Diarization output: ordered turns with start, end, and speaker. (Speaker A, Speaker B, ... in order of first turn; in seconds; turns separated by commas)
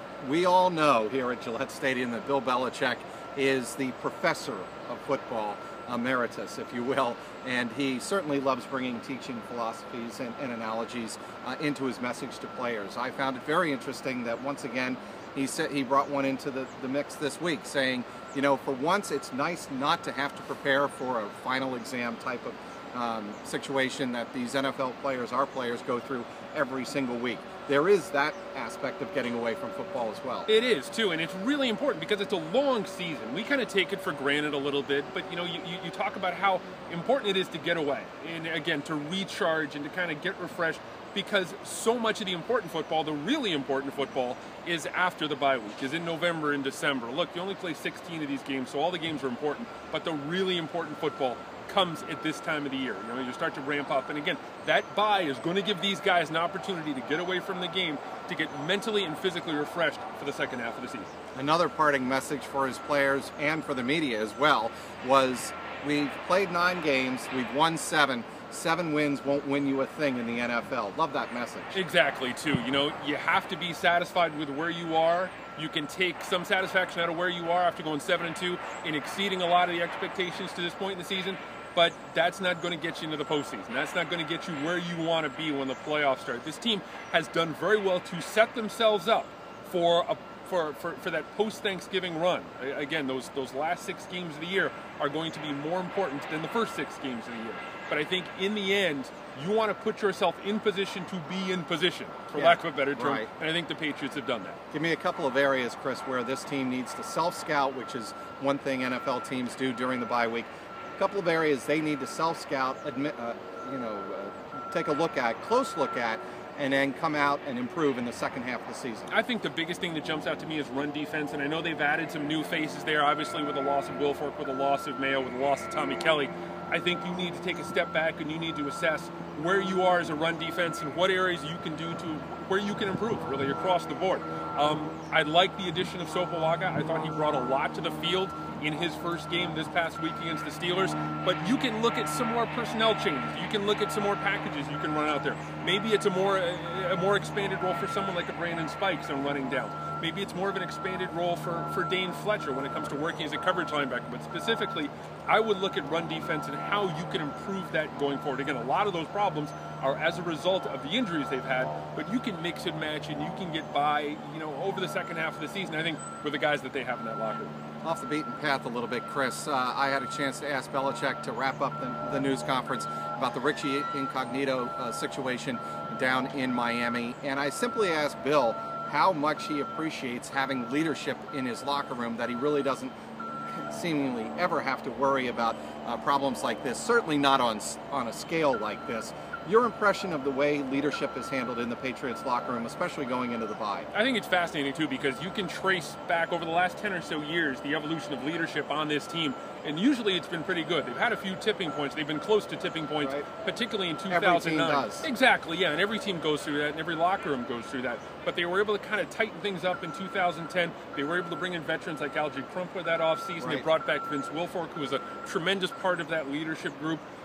Speaker A: 0.2-30.5, Speaker B: 30.5-61.1, Speaker A: 61.3-71.8, Speaker B: 71.7-104.6, Speaker A: 102.3-103.3, Speaker A: 104.7-119.1, Speaker B: 119.1-167.6, Speaker A: 167.8-182.9, Speaker A: 183.6-193.9, Speaker B: 193.9-217.0, Speaker A: 203.0-203.3, Speaker A: 204.1-205.1, Speaker A: 213.4-213.7